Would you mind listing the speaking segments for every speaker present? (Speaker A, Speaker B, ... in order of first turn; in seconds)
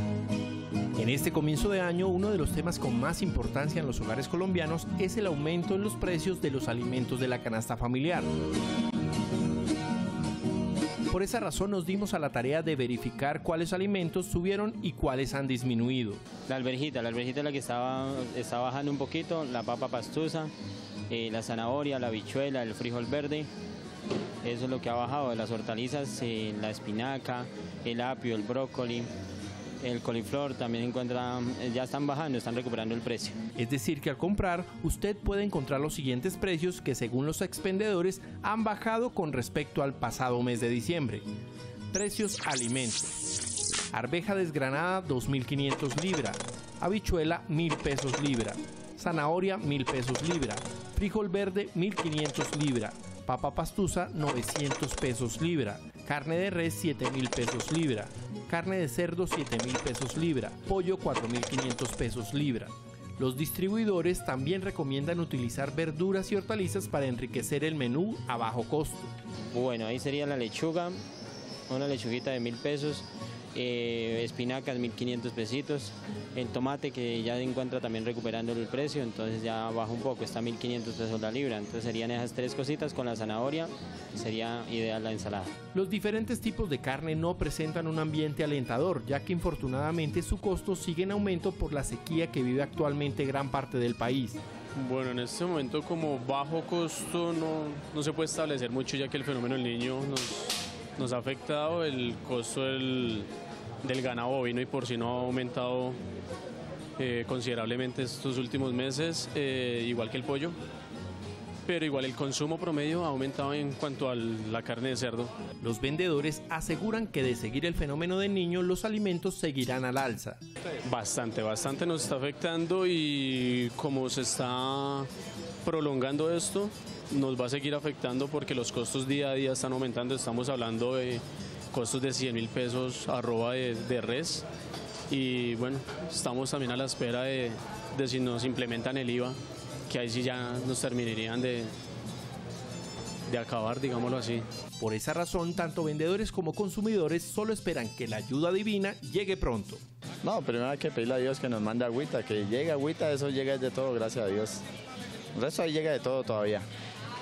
Speaker A: 1.0-8.2, 11.1-16.2, 33.6-41.2, 41.9-43.2, 43.9-69.1, 85.7-94.4, 115.6-120.4, 144.8-149.8
Speaker B: 16.5-20.5, 21.1-23.5, 24.4-29.1, 29.8-33.4, 69.5-71.0, 71.7-85.5
Speaker C: 94.8-103.3, 103.8-106.0, 107.0-110.6, 111.7-115.3, 120.8-125.1, 125.6-134.5, 135.1-139.4, 139.9-141.7, 143.3-144.4
Speaker D: 150.2-154.6, 155.3-156.7